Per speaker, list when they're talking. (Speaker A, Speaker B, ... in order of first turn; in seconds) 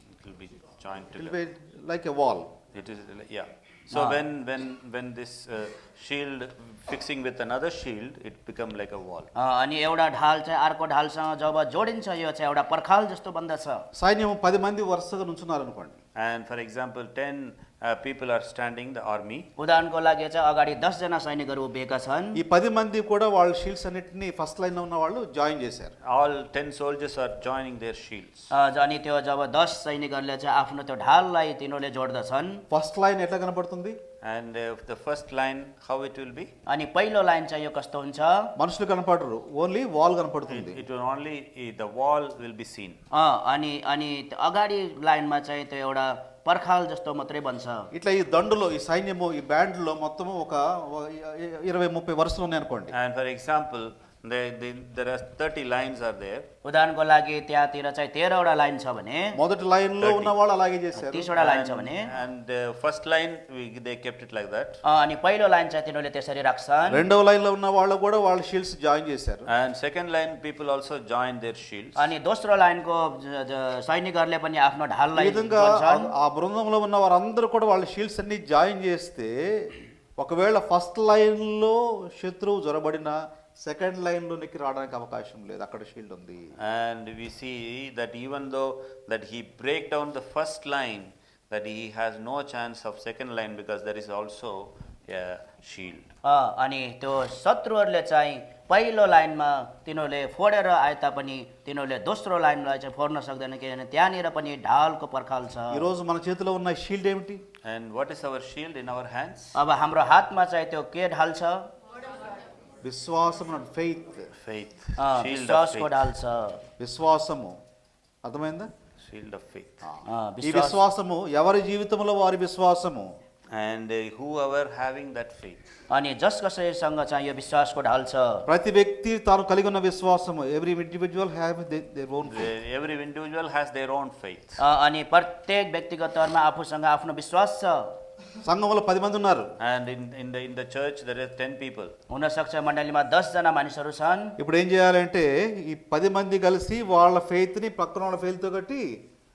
Speaker A: 0.2-1.4, 2.7-9.3, 16.2-19.5, 26.1-28.5, 34.2-36.5, 40.5-43.0, 52.9-56.5, 60.0-60.3, 61.3-64.8, 69.5-72.0, 86.6-96.1, 107.7-109.6, 114.4-116.1, 119.0-119.9, 123.5-125.6, 132.3-134.6, 139.6-141.9
Speaker B: 1.1-2.5, 13.9-16.0, 22.3-25.9, 32.7-34.0, 38.6-40.8, 47.9-52.9, 59.3-61.3, 66.9-69.5, 75.2-86.5, 105.7-107.4, 112.8-114.3, 116.8-117.5, 118.2-118.7, 119.8-123.1, 128.5-132.5, 138.4-139.5, 144.4-148.9
Speaker C: 3.9-4.2, 9.4-13.8, 19.6-22.4, 28.5-32.6, 36.7-38.5, 43.1-47.9, 56.6-59.4, 60.9-62.1, 64.9-67.0, 72.0-76.1, 96.2-105.9, 109.5-111.7, 115.0-116.6, 120.1-120.8, 125.9-128.5, 134.6-137.9, 142.1-144.3